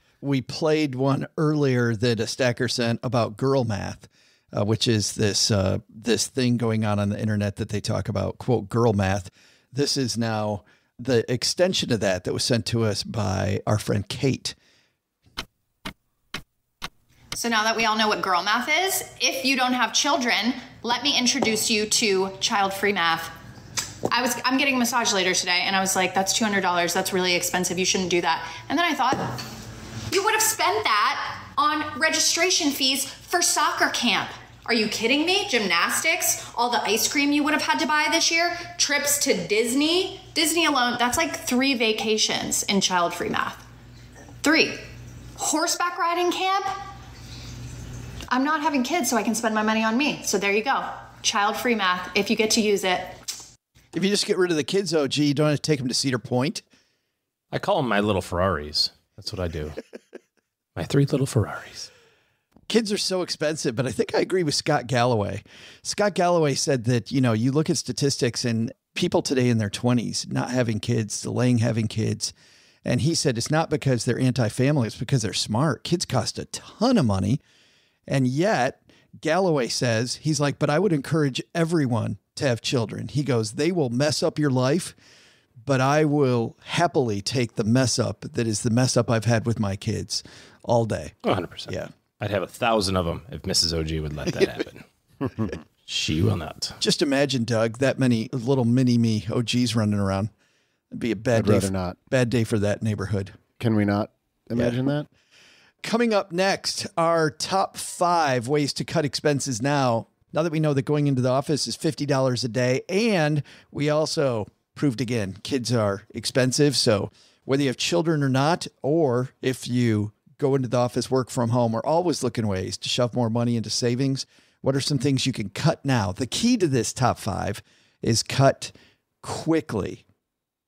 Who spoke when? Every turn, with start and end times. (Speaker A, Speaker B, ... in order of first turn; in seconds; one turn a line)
Speaker A: 0.2-14.6
Speaker B: 17.3-23.3
Speaker B: 24.1-29.4
Speaker B: 30.1-43.6
Speaker B: 44.4-46.7
Speaker B: 48.3-53.2
Speaker A: 53.9-56.6
Speaker C: 57.5-59.8
Speaker C: 60.8-61.9
Speaker A: 62.7-72.3
Speaker A: 72.8-77.4
Speaker A: 78.1-85.0
Speaker A: 85.6-91.2
Speaker C: 91.2-94.8
Speaker C: 95.9-96.8
Speaker A: 96.8-100.3
Speaker A: 100.9-103.4
Speaker D: 101.3-102.0
Speaker D: 103.6-105.1
Speaker A: 105.8-130.0